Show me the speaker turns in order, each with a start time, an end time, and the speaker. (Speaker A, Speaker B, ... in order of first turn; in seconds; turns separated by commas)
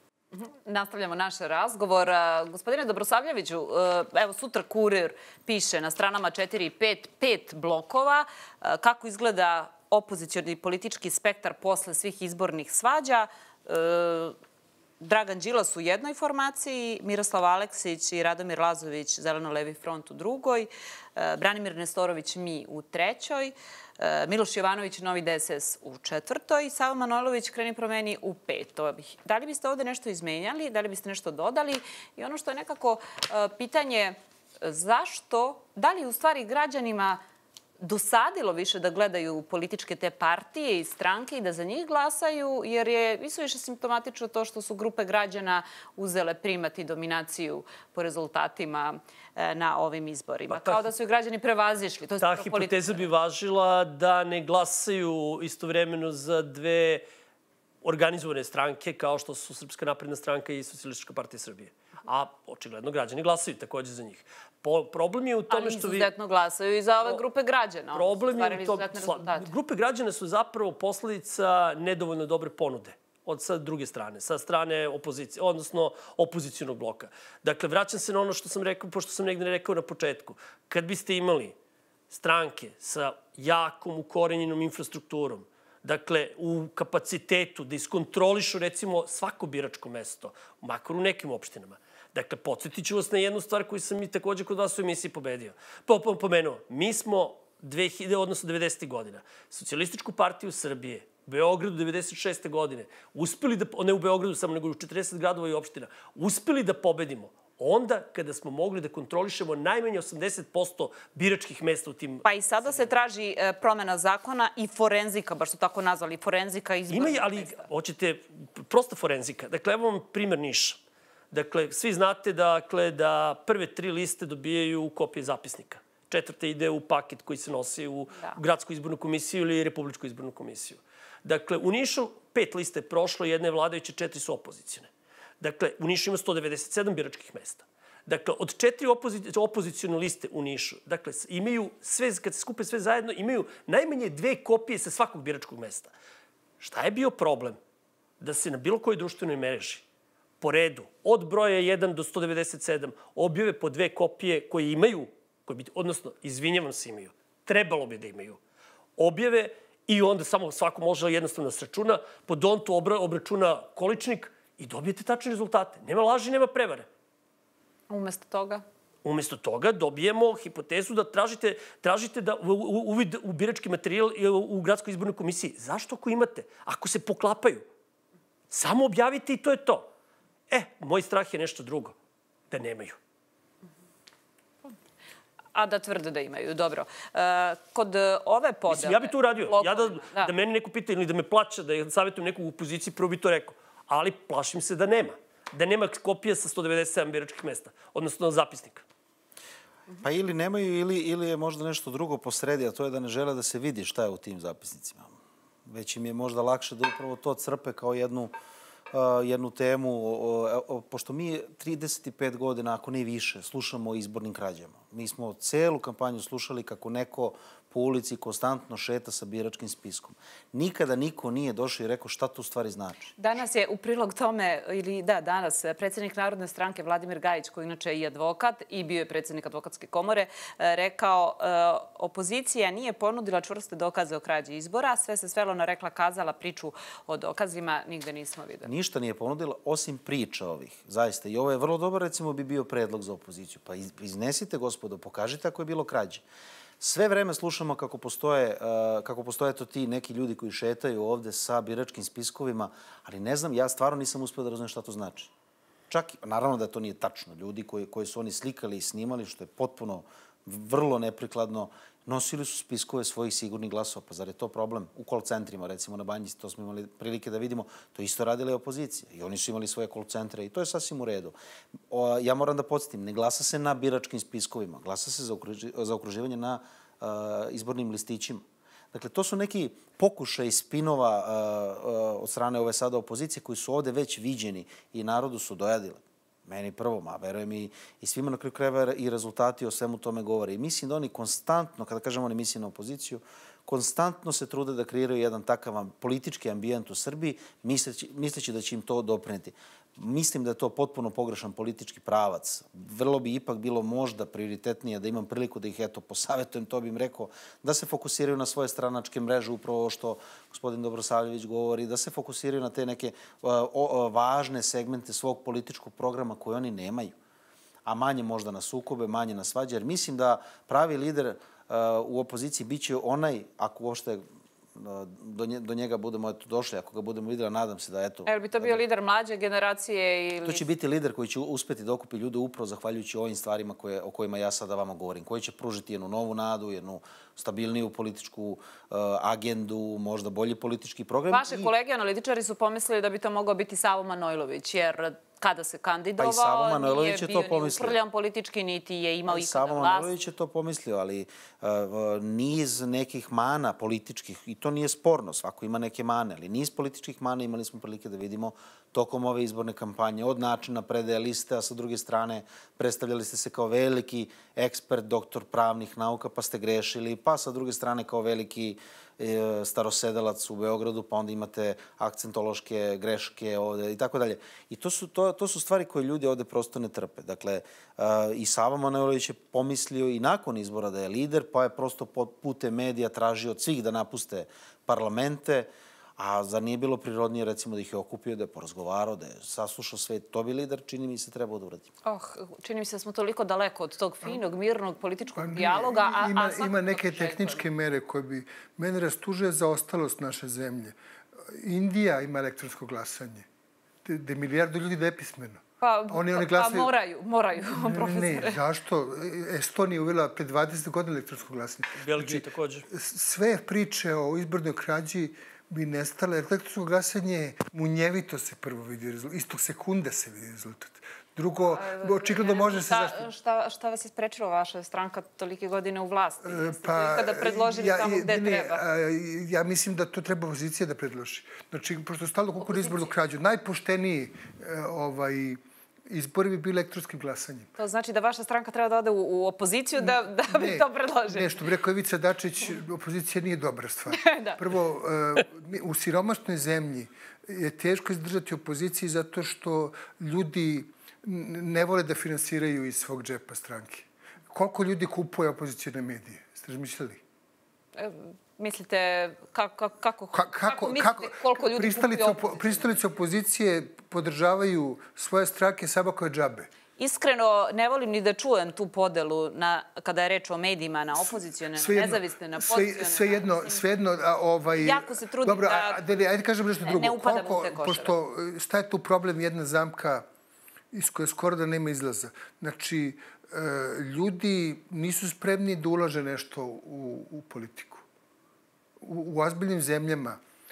Speaker A: 0.3-14.4, Speaker A: 15.0-37.2, Speaker A: 37.8-53.1, Speaker B: 50.5-50.9, Speaker B: 52.2-57.0, Speaker B: 57.8-66.1, Speaker A: 65.5-69.5, Speaker B: 67.9-81.5, Speaker B: 82.1-112.3, Speaker A: 112.2-117.7, Speaker B: 116.9-120.8, Speaker B: 121.3-134.9, Speaker B: 135.4-145.9, Speaker B: 146.6-147.6, Speaker B: 148.2-149.8, Speaker B: 150.4-158.4, Speaker B: 159.0-166.9, Speaker A: 167.9-168.6, Speaker B: 169.0-177.7, Speaker B: 178.5-179.9, Speaker B: 180.5-181.9, Speaker B: 182.5-183.0, Speaker A: 185.6-190.3, Speaker B: 188.7-198.8, Speaker C: 200.0-205.1, Speaker C: 205.7-208.3, Speaker C: 208.9-223.1, Speaker A: 223.2-238.7, Speaker C: 238.6-246.2, Speaker C: 246.8-255.3, Speaker C: 255.9-271.3, Speaker C: 271.9-317.1, Speaker C: 317.9-324.2, Speaker C: 324.8-328.8, Speaker A: 328.3-330.6, Speaker C: 330.4-341.7, Speaker A: 341.3-350.1, Speaker C: 346.2-348.0, Speaker C: 349.3-391.9, Speaker A: 392.1-397.7, Speaker D: 395.4-401.0, Speaker D: 401.5-403.5, Speaker D: 404.1-406.9, Speaker A: 405.8-408.6, Speaker D: 407.7-423.3, Speaker B: 412.0-412.9, Speaker A: 421.7-428.8, Speaker D: 426.4-437.7, Speaker A: 432.7-433.1, Speaker A: 437.8-441.6, Speaker D: 440.0-457.2, Speaker A: 444.1-444.6, Speaker A: 458.0-463.0, Speaker D: 460.3-466.7, Speaker A: 467.0-473.8, Speaker D: 471.2-480.3, Speaker A: 474.8-476.0, Speaker A: 476.8-478.1, Speaker D: 480.9-488.0, Speaker D: 489.0-490.4